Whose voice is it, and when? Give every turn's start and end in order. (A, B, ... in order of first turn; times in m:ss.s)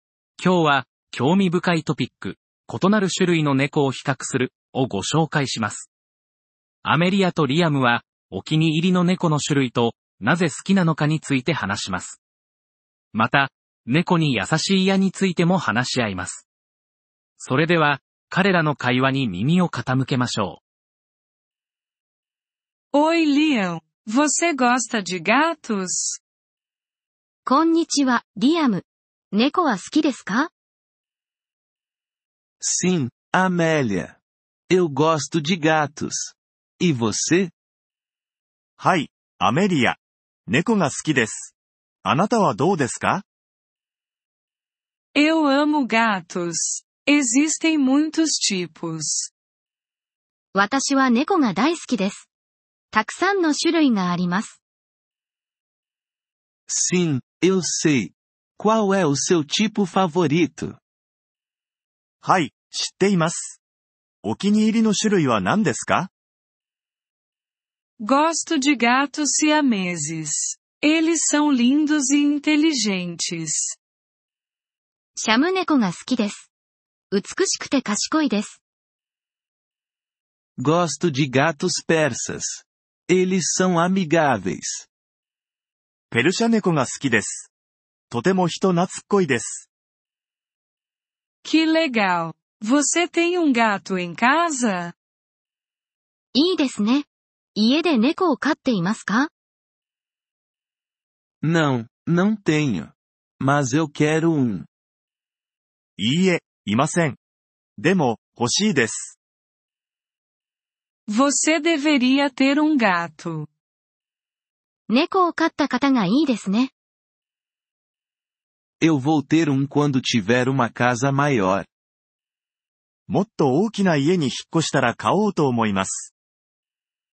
0:00.4-0:05.9 A
0:06.8-0:12.2 A
0:13.1-0:16.4 A
0:17.4-0:20.6 A
0:22.9-0:26.2 B
0:27.5-0:30.5 C
0:32.6-0:34.2 D
0:34.7-0:37.5 D
0:38.8-0:43.2 E
0:45.2-0:49.3 B
0:50.5-0:52.3 C
0:52.9-0:54.6 C
0:56.7-1:00.8 D
1:02.2-1:03.6 E
1:04.2-1:06.1 E
1:08.0-1:13.8 B
1:15.2-1:16.5 C
1:17.1-1:18.6 C
1:20.6-1:24.9 D
1:26.1-1:27.5 E
1:28.1-1:29.7 E
1:31.4-1:34.9 B
1:36.3-1:39.3 C
1:41.4-1:44.7 D
1:46.0-1:47.2 E
1:47.8-1:49.2 E
1:51.1-1:53.5 B
1:54.9-1:56.7 C
1:58.8-2:01.7 D
2:03.1-2:06.1 E